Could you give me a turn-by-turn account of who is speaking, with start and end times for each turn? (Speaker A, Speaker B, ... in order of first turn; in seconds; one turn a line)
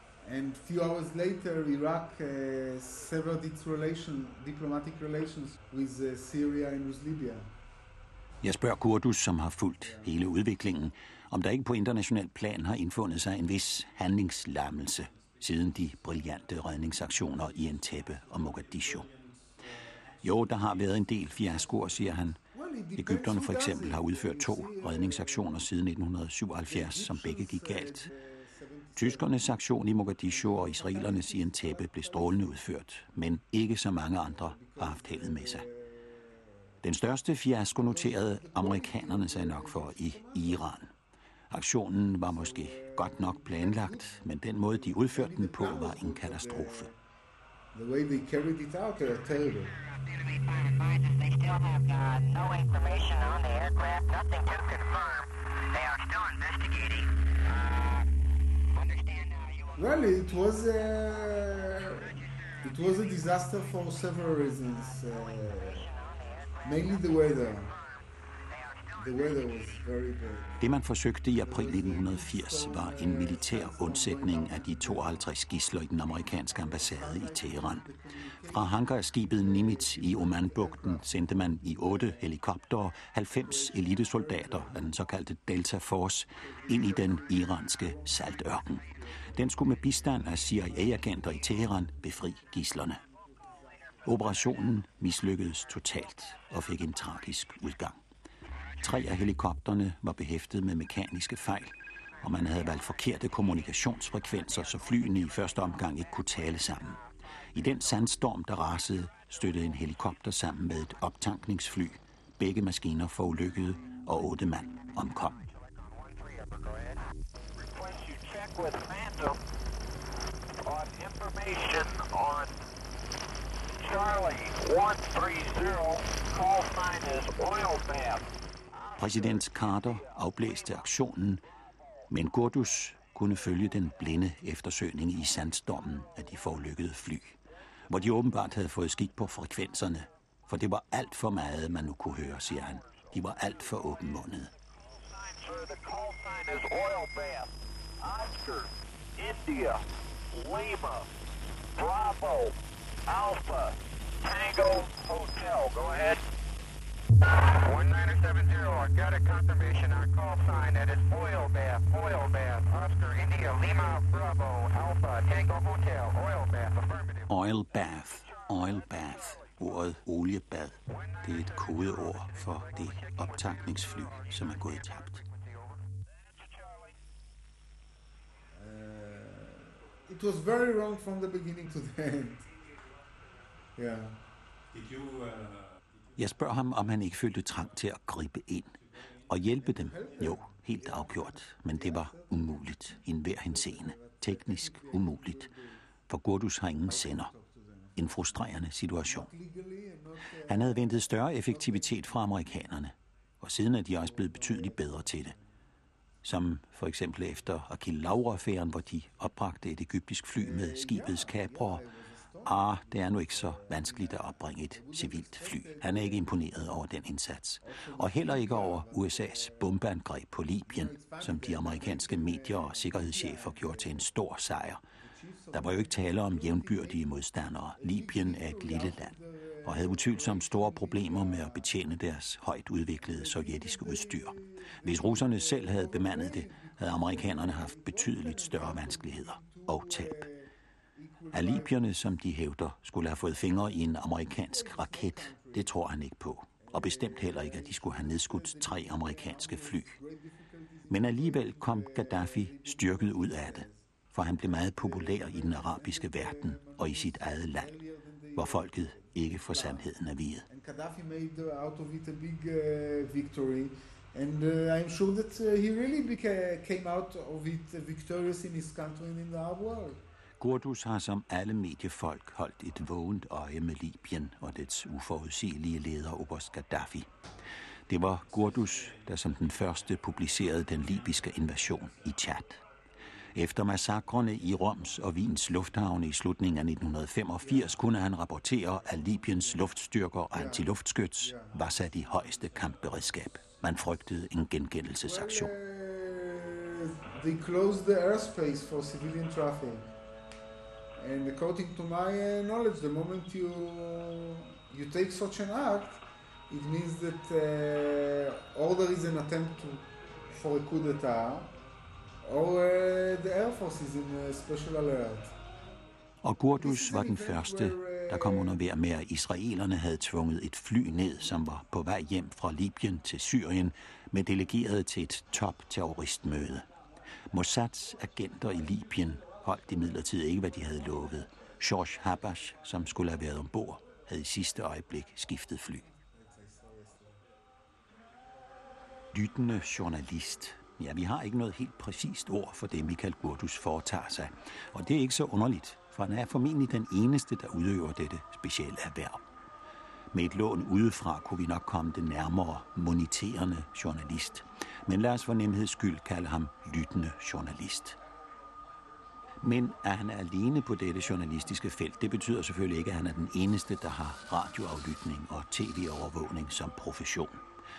Speaker A: 0.2-7.5
Speaker B: 8.4-19.1
Speaker A: 9.8-10.2
Speaker B: 20.2-22.4
Speaker A: 22.5-25.6
Speaker B: 23.0-28.1
Speaker A: 26.6-29.4
Speaker B: 29.0-35.7
Speaker A: 30.3-32.6
Speaker A: 34.2-36.5
Speaker B: 36.8-40.9
Speaker A: 37.7-40.7
Speaker B: 41.5-46.9
Speaker A: 42.2-47.0
Speaker A: 47.7-49.8
Speaker C: 49.9-58.1
Speaker C: 58.8-60.0
Speaker A: 59.8-65.9
Speaker C: 65.7-67.8
Speaker A: 66.7-67.8
Speaker C: 68.5-69.0
Speaker A: 69.0-70.6
Speaker B: 70.6-77.9
Speaker A: 71.4-75.3
Speaker A: 76.3-82.3
Speaker B: 78.5-93.0
Speaker A: 83.3-84.9
Speaker A: 86.4-91.7
Speaker A: 92.9-94.2
Speaker B: 94.0-98.0
Speaker B: 98.8-115.5
Speaker C: 115.5-117.0
Speaker C: 117.7-119.4
Speaker C: 120.6-122.5
Speaker C: 123.8-130.3
Speaker B: 129.0-131.4
Speaker B: 132.1-144.5
Speaker C: 144.8-151.1
Speaker C: 151.8-152.6
Speaker C: 153.1-156.2
Speaker C: 157.2-167.3
Speaker B: 167.3-175.2
Speaker C: 168.3-169.5
Speaker C: 171.0-175.8
Speaker C: 176.3-176.9
Speaker A: 178.6-182.5
Speaker A: 183.8-184.2
Speaker B: 186.2-195.5
Speaker A: 189.6-195.8
Speaker B: 196.1-197.3
Speaker A: 196.8-198.2
Speaker B: 198.0-199.3
Speaker A: 199.0-202.6
Speaker B: 200.5-205.4
Speaker A: 204.0-205.5
Speaker B: 206.2-211.8
Speaker A: 210.3-216.4
Speaker B: 212.4-224.8
Speaker A: 217.6-219.8
Speaker A: 220.7-224.0
Speaker A: 225.0-227.1
Speaker B: 225.5-240.3
Speaker A: 227.8-231.8
Speaker A: 233.0-241.8
Speaker B: 241.3-250.0
Speaker A: 244.5-245.8
Speaker A: 246.6-253.8
Speaker B: 250.9-257.8
Speaker A: 254.5-259.9
Speaker B: 258.4-260.5
Speaker A: 260.5-270.0
Speaker B: 270.4-277.1
Speaker B: 277.9-282.6
Speaker B: 283.3-295.5
Speaker A: 290.3-291.6
Speaker A: 295.0-299.9
Speaker A: 301.0-311.6
Speaker A: 312.2-315.4
Speaker B: 316.2-326.7
Speaker A: 316.6-318.6
Speaker B: 327.3-335.9
Speaker A: 335.9-337.2
Speaker B: 339.1-349.2
Speaker B: 350.1-358.0
Speaker B: 359.4-367.4